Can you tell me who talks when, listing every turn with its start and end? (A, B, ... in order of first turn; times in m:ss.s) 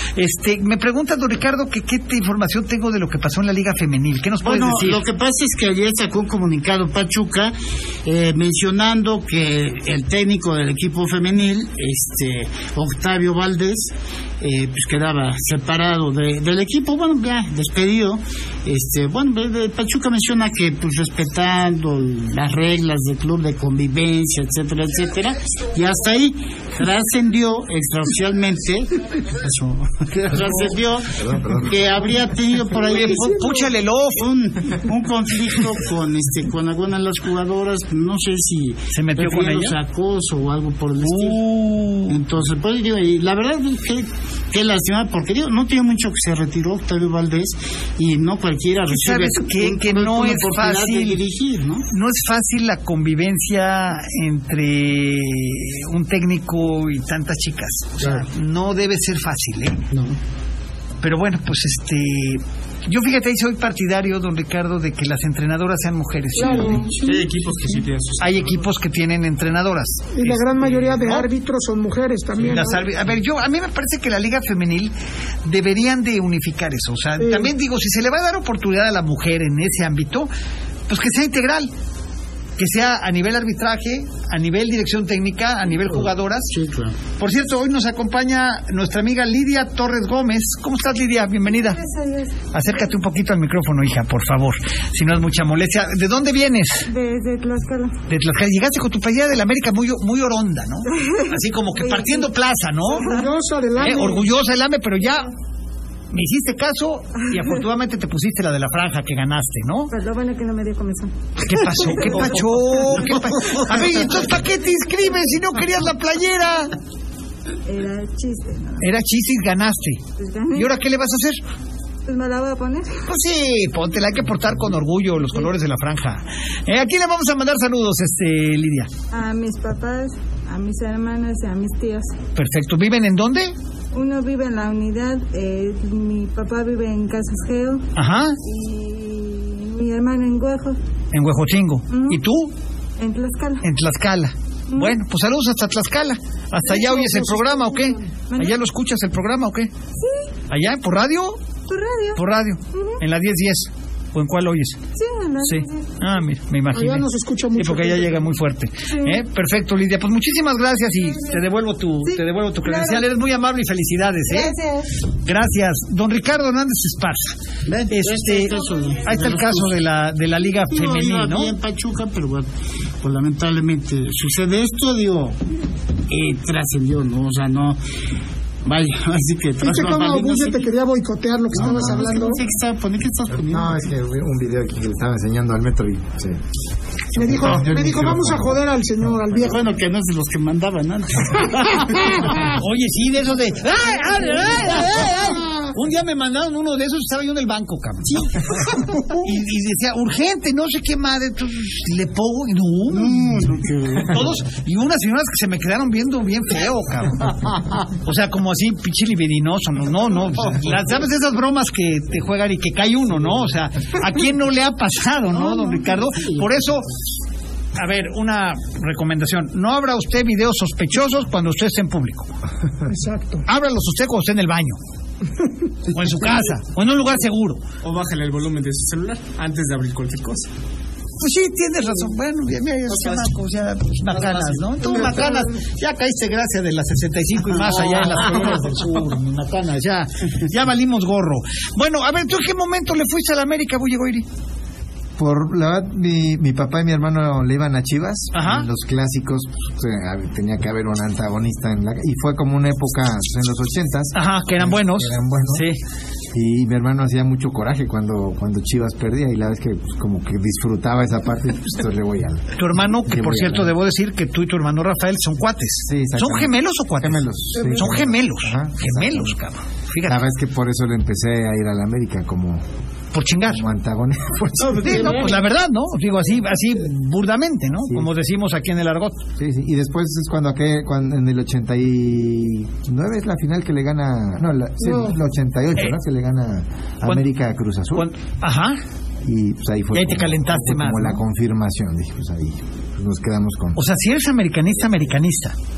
0:00.2-0:05.0 A
0:04.4-0:33.4 B
0:31.2-0:31.7 C
0:32.9-0:34.2 A
0:32.9-0:33.7 D
0:34.2-0:41.4 B
0:38.9-0:39.8 A
0:41.0-0:42.2 A
0:42.1-0:51.8 B
0:48.9-0:51.2 A
0:51.9-0:59.8 A
1:01.0-1:06.8 A
1:06.4-1:07.1 D
1:06.4-1:07.0 B
1:07.0-1:08.6 E
1:08.2-1:11.3 A
1:10.1-1:12.8 D
1:12.4-1:14.9 A
1:15.4-1:20.3 A
1:17.2-1:17.5 D
1:20.9-1:21.7 A
1:22.6-1:26.5 A
1:26.0-1:27.0 B
1:27.2-1:31.8 A
1:31.4-1:32.4 F
1:32.5-1:36.9 A
1:36.9-1:38.0 F
1:38.1-1:43.1 A
1:40.9-1:42.3 F
1:42.9-1:43.3 F
1:43.0-1:44.3 D
1:43.8-1:45.3 A
1:46.1-1:49.9 A
1:47.3-1:47.6 F
1:49.9-1:51.1 F
1:51.4-1:56.7 A
1:51.8-1:52.3 F
1:54.1-1:55.2 F
1:57.6-1:58.9 F
1:58.8-2:00.0 A
2:00.2-2:00.8 F
2:00.5-2:01.4 A
2:02.0-2:03.0 F
2:03.1-2:08.9 A
2:09.1-2:12.1 F
2:12.4-2:13.5 A
2:13.9-2:17.8 F
2:17.9-2:18.4 A
2:18.4-2:20.8 F
2:21.1-2:22.5 A
2:21.9-2:22.2 F
2:23.0-2:23.6 F
2:23.6-2:29.7 A
2:24.7-2:25.0 F
2:26.7-2:28.0 D
2:28.3-2:28.6 F
2:30.0-2:30.3 F
2:30.5-2:31.4 A
2:31.7-2:33.0 F
2:32.2-2:34.8 A
2:34.9-2:35.9 F
2:35.4-2:44.5 A
2:36.7-2:38.3 D
2:38.9-2:39.2 F
2:41.1-2:41.4 F
2:42.0-2:43.1 F
2:44.3-2:44.9 F
2:45.2-2:47.4 A
2:47.6-2:49.7 B
2:47.9-2:51.5 A
2:50.7-2:52.5 B
2:53.0-2:55.4 B
2:56.1-2:57.8 B
2:58.6-3:00.7 B
2:59.6-3:02.4 D
3:01.5-3:03.7 B
3:03.4-3:06.4 C
3:07.1-3:09.6 D
3:07.1-3:08.6 C
3:09.3-3:12.5 B
3:11.8-3:12.2 D
3:12.5-3:18.4 A
3:18.7-3:19.2 D
3:19.2-3:23.4 A
3:22.9-3:24.3 B
3:24.0-3:27.4 A
3:27.9-3:36.8 A
3:35.3-3:36.4 B
3:37.8-3:42.3 A
3:42.9-3:43.4 D
3:43.4-3:44.8 A
3:45.9-3:47.6 A
3:47.8-3:50.5 E
3:51.2-4:04.2 A
3:54.2-3:54.5 E
4:05.2-4:15.7 C
4:08.3-4:08.7 A
4:14.1-4:15.8 A
4:16.3-4:23.7 C
4:22.6-4:30.2 A
4:25.9-4:29.3 C
4:27.6-4:27.9 D
4:30.0-4:32.6 C
4:33.1-4:33.6 A
4:33.5-4:35.2 C
4:34.6-4:35.3 B
4:34.8-4:39.2 A
4:37.8-4:38.1 C
4:39.4-4:48.1 C
4:44.8-4:45.2 D
4:47.9-4:48.8 A
4:49.2-4:53.8 C
4:49.9-4:51.2 A
4:53.7-4:55.5 A